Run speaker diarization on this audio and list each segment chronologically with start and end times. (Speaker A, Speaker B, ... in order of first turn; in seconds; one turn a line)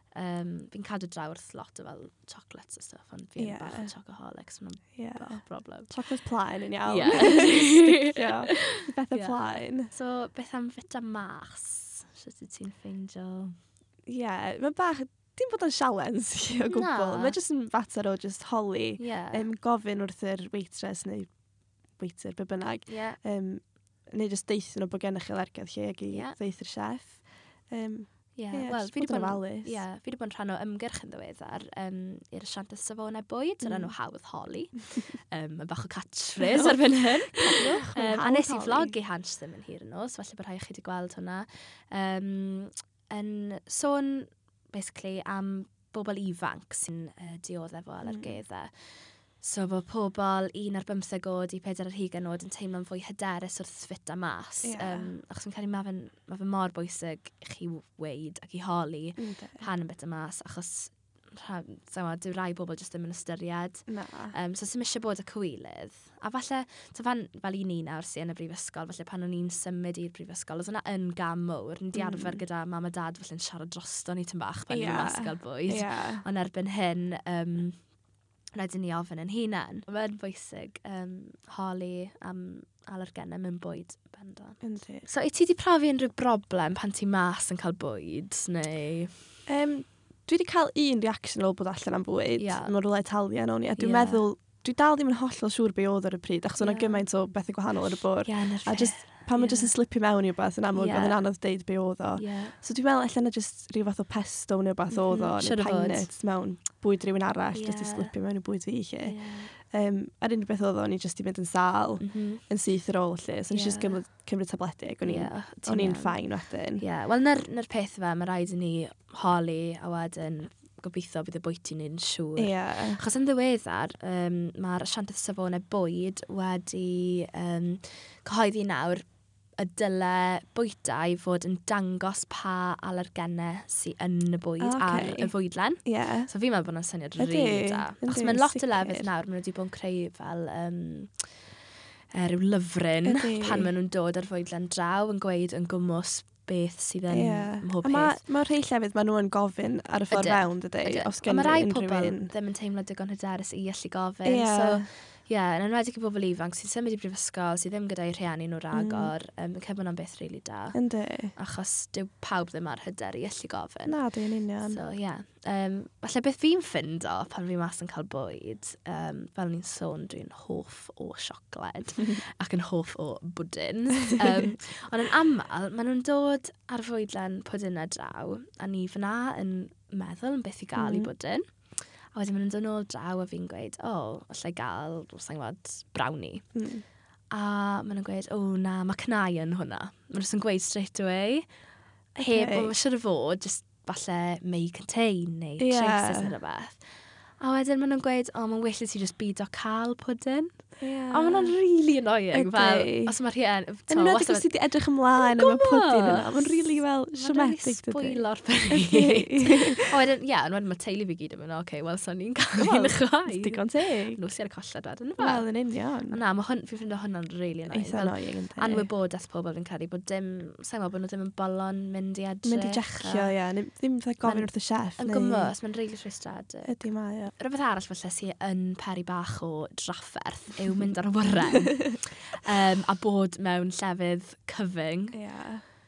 Speaker A: 0.1-6.0
Speaker B: 3.4-3.9
Speaker B: 5.0-9.9
Speaker A: 6.8-13.5
Speaker B: 14.1-21.3
Speaker A: 16.7-17.4
Speaker A: 19.0-19.5
Speaker B: 22.0-29.8
Speaker A: 22.9-23.2
Speaker A: 26.1-26.4
Speaker A: 28.4-48.9
Speaker B: 33.6-33.9
Speaker B: 36.4-39.0
Speaker B: 48.0-48.4
Speaker A: 49.4-77.8
Speaker B: 54.6-55.1
Speaker B: 59.2-59.6
Speaker B: 63.9-64.3
Speaker B: 71.9-72.4
Speaker B: 74.7-76.2
Speaker A: 78.5-89.1
Speaker B: 84.6-85.1
Speaker B: 89.5-116.8
Speaker A: 92.4-92.7
Speaker A: 93.8-94.3
Speaker A: 96.6-97.0
Speaker A: 98.2-99.7
Speaker A: 100.8-101.2
Speaker A: 102.2-102.5
Speaker A: 104.9-106.1
Speaker A: 107.5-108.1
Speaker A: 109.0-109.5
Speaker A: 112.0-112.4
Speaker A: 113.5-114.0
Speaker A: 115.0-116.2
Speaker A: 116.8-129.0
Speaker B: 122.4-123.0
Speaker A: 129.6-141.3
Speaker B: 134.6-135.3
Speaker B: 135.8-136.3
Speaker B: 137.2-139.1
Speaker A: 142.1-148.2
Speaker B: 143.0-143.7
Speaker B: 147.1-152.3
Speaker A: 150.1-160.8
Speaker B: 154.2-154.9
Speaker B: 158.7-159.1
Speaker B: 160.7-161.3
Speaker A: 161.4-164.0
Speaker B: 163.9-164.8
Speaker A: 164.6-181.4
Speaker B: 180.8-181.1
Speaker A: 182.1-186.4
Speaker B: 186.5-186.8
Speaker A: 187.3-191.4
Speaker B: 192.2-192.7
Speaker A: 192.2-196.8
Speaker B: 195.6-196.4
Speaker A: 197.4-200.5
Speaker B: 200.8-201.6
Speaker A: 201.1-204.5
Speaker B: 202.3-203.2
Speaker B: 203.9-209.9
Speaker A: 205.2-215.5
Speaker B: 212.6-214.2
Speaker B: 215.2-216.2
Speaker A: 216.1-223.3
Speaker B: 217.7-218.9
Speaker B: 222.4-225.5
Speaker A: 224.2-226.8
Speaker B: 226.7-227.3
Speaker A: 227.4-235.2
Speaker B: 235.1-235.6